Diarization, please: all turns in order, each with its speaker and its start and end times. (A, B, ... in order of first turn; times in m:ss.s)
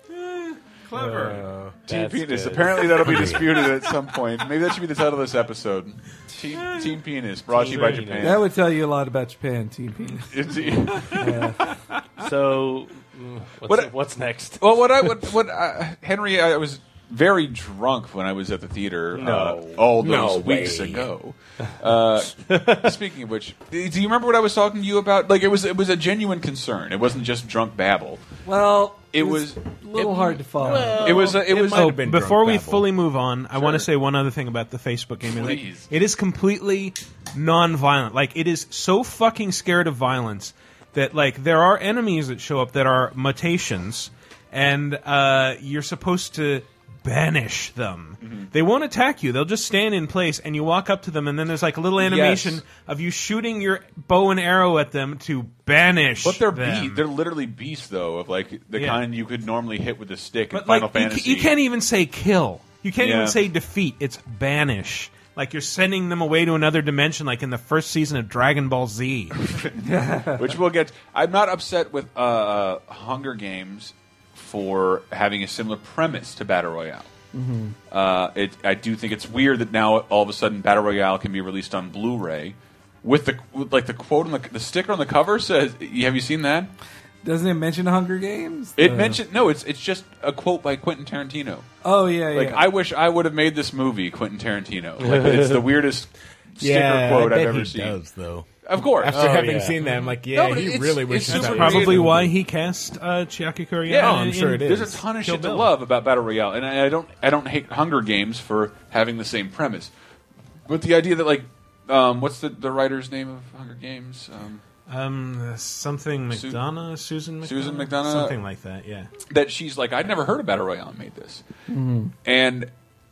0:00.1-0:01.5 A
0:00.9-0:01.7 B
0:01.9-0:03.3 C
0:01.9-0:08.5 D
0:03.0-0:03.4 B
0:07.5-0:08.4 C
0:08.2-0:10.3 E
0:10.3-0:11.3 D
0:11.1-0:11.6 E
0:11.6-0:12.0 A
0:12.2-0:14.6 C
0:14.6-0:28.2 D
0:19.1-0:19.8 C
0:20.0-0:21.1 B
0:22.4-0:22.9 C
0:28.4-0:31.0 E
0:29.1-0:32.0 D
0:30.6-0:32.9 B
0:30.8-0:57.0 A
0:33.5-0:33.9 D
0:35.3-0:35.9 D
0:48.2-0:48.5 D
0:52.0-0:52.6 D
0:56.2-1:01.5 D
0:58.7-0:59.0 A
1:00.5-1:09.4 A
1:03.0-1:03.4 D
1:09.5-1:09.7 D
1:09.8-1:10.5 E
1:10.4-1:17.1 D
1:17.3-1:17.7 E
1:17.9-1:26.7 D
1:27.2-1:29.2 E
1:28.8-1:31.7 D
1:31.8-1:32.6 E
1:32.3-1:38.0 D
1:35.0-1:35.7 C
1:36.6-1:42.3 B
1:38.6-1:39.3 D
1:39.1-1:39.7 C
1:40.3-1:42.1 D
1:41.2-1:45.7 A
1:43.8-1:49.9 D
1:44.0-1:45.0 B
1:50.6-1:54.6 D
1:54.9-1:59.1 A
1:56.3-1:56.6 D
1:57.4-1:58.4 D
1:59.3-2:01.4 D
2:01.7-2:02.1 E
2:02.2-2:02.7 D